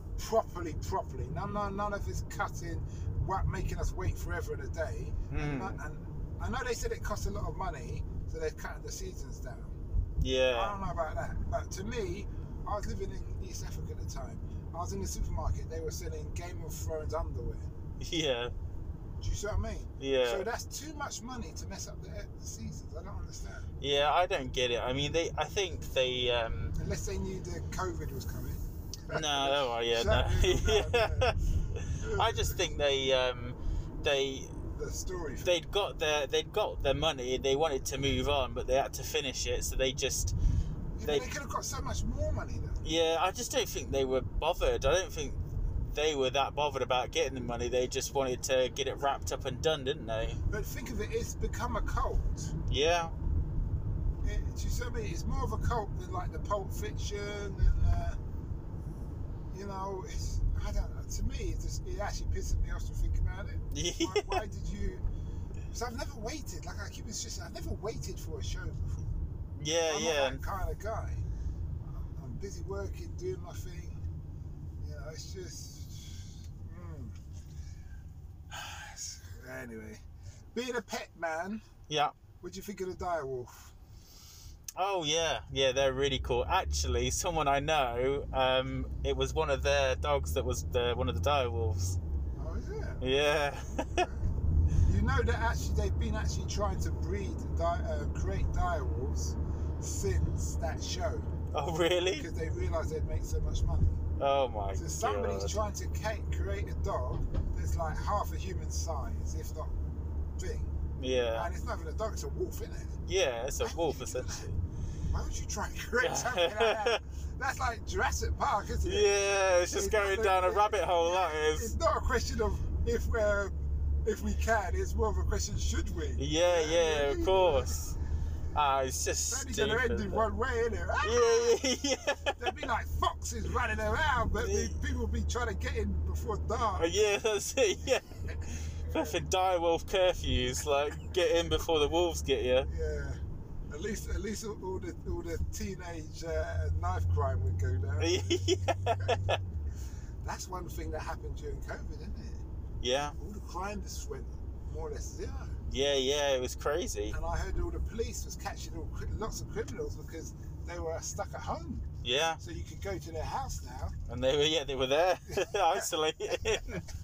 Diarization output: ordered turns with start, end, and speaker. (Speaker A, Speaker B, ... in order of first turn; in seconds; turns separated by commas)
Speaker A: 0.2-9.8, Speaker B: 5.3-5.8, Speaker B: 10.2-10.8, Speaker A: 10.5-17.7, Speaker B: 18.0-18.5, Speaker A: 19.2-23.7, Speaker B: 20.0-20.4, Speaker B: 23.8-26.7, Speaker A: 26.8-31.3, Speaker B: 29.1-34.5, Speaker A: 31.9-32.6, Speaker A: 34.7-35.6, Speaker B: 35.4-40.3, Speaker A: 41.0-42.8, Speaker B: 42.8-45.4, Speaker B: 45.9-50.4, Speaker A: 50.5-52.5, Speaker B: 52.7-53.1, Speaker A: 54.2-58.2, Speaker A: 59.5-65.0, Speaker B: 63.7-64.4, Speaker A: 65.7-69.0, Speaker B: 69.5-70.4, Speaker A: 69.9-71.2, Speaker A: 72.2-74.0, Speaker A: 74.8-77.2, Speaker A: 78.5-80.0, Speaker A: 80.5-81.6, Speaker B: 81.9-82.1, Speaker A: 82.4-83.7, Speaker B: 84.8-92.0, Speaker A: 92.4-93.0, Speaker B: 93.0-94.1, Speaker A: 94.0-94.3, Speaker A: 94.8-101.3, Speaker B: 101.5-102.3, Speaker A: 102.1-104.0, Speaker B: 104.2-105.6, Speaker A: 104.7-109.7, Speaker A: 110.3-110.7, Speaker B: 111.0-111.5, Speaker A: 111.3-113.0, Speaker B: 113.1-114.5, Speaker A: 113.6-114.5, Speaker A: 115.1-119.1, Speaker B: 116.0-117.0, Speaker B: 118.8-121.7, Speaker A: 119.7-127.8, Speaker B: 126.2-128.0, Speaker B: 128.5-130.2, Speaker A: 129.3-131.6, Speaker B: 131.0-132.4, Speaker A: 132.4-137.0, Speaker B: 134.4-134.7, Speaker B: 136.8-142.7, Speaker A: 138.3-139.2, Speaker A: 142.7-143.2, Speaker A: 143.7-148.5, Speaker B: 148.0-149.3, Speaker A: 150.2-152.4, Speaker B: 152.8-153.2, Speaker A: 153.2-155.6, Speaker B: 155.7-157.2, Speaker A: 157.1-161.8, Speaker B: 162.0-162.4, Speaker A: 162.4-163.9, Speaker B: 164.1-166.8, Speaker A: 165.3-165.9